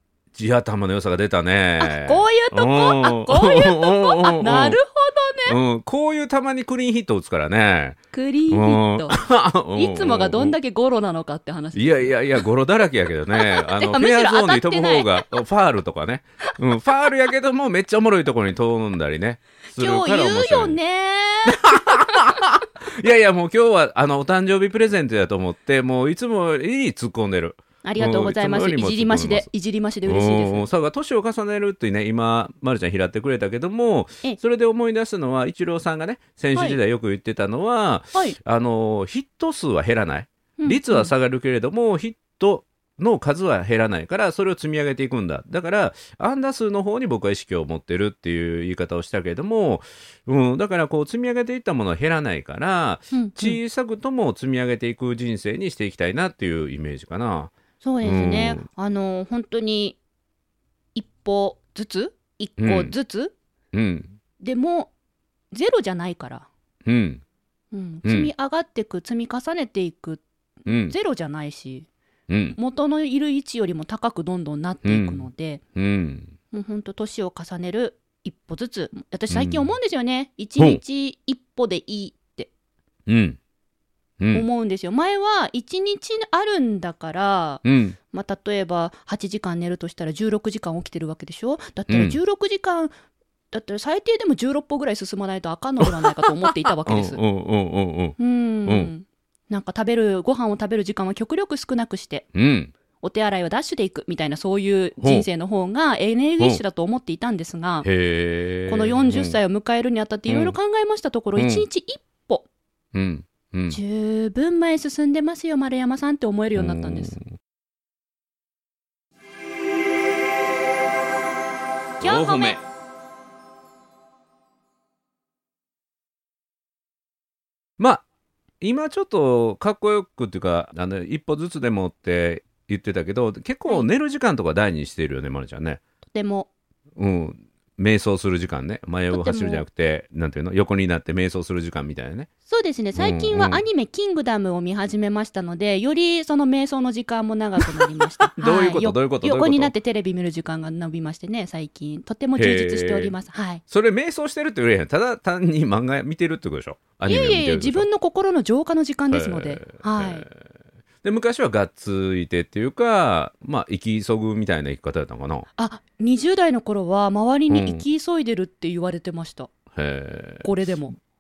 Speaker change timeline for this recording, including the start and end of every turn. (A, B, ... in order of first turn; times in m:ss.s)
0:00.3-0:04.8 A
0:01.8-0:05.6 B
0:05.5-0:08.0 A
0:08.1-0:09.2 B
0:08.5-0:10.6 A
0:09.8-0:12.5 B
0:11.8-0:20.8 A
0:13.3-0:15.3 B
0:19.7-0:22.4 B
0:21.5-0:29.5 A
0:27.8-0:30.7 B
0:30.1-0:57.5 A
0:40.6-0:41.1 B
0:53.1-0:53.6 B
0:57.8-1:00.0 B
0:58.0-0:58.6 A
1:01.0-1:03.3 B
1:02.6-1:02.9 A
1:03.7-1:04.2 A
1:04.4-1:04.9 B
1:05.5-1:06.5 B
1:06.8-1:07.2 A
1:07.7-1:11.9 B
1:08.0-1:08.3 A
1:10.7-1:10.9 A
1:12.3-1:12.6 A
1:12.6-1:15.6 B
1:14.8-1:16.3 A
1:16.5-1:22.5 B
1:19.3-1:19.7 A
1:23.1-1:23.4 A
1:24.2-1:24.5 A
1:24.3-1:32.9 B
1:27.6-1:28.0 A
1:31.9-1:32.2 A
1:33.5-1:37.2 B
1:35.9-1:38.9 A
1:38.2-1:42.3 B
1:42.3-1:42.7 A
1:43.0-1:47.9 B
1:45.0-1:45.3 A
1:47.8-1:49.4 A
1:48.7-1:52.5 B
1:50.3-1:50.6 A
1:51.4-1:51.6 A
1:52.9-1:53.8 A
1:53.7-1:57.2 B
1:56.6-1:57.3 A
2:02.0-2:02.6 B
2:02.0-2:02.5 A
2:08.6-2:15.8 A
2:16.1-2:16.5 B
2:17.0-2:22.3 A
2:19.1-2:19.6 B
2:22.5-2:33.6 B
2:23.0-2:23.6 A
2:27.7-2:29.7 A
2:32.4-2:33.1 A
2:33.7-2:37.9 A
2:37.0-2:40.3 B
2:39.1-2:40.4 A
2:41.0-2:45.5 A
2:45.6-2:49.5 B
2:47.5-2:47.8 A
2:49.7-2:50.5 A
2:50.4-2:51.0 B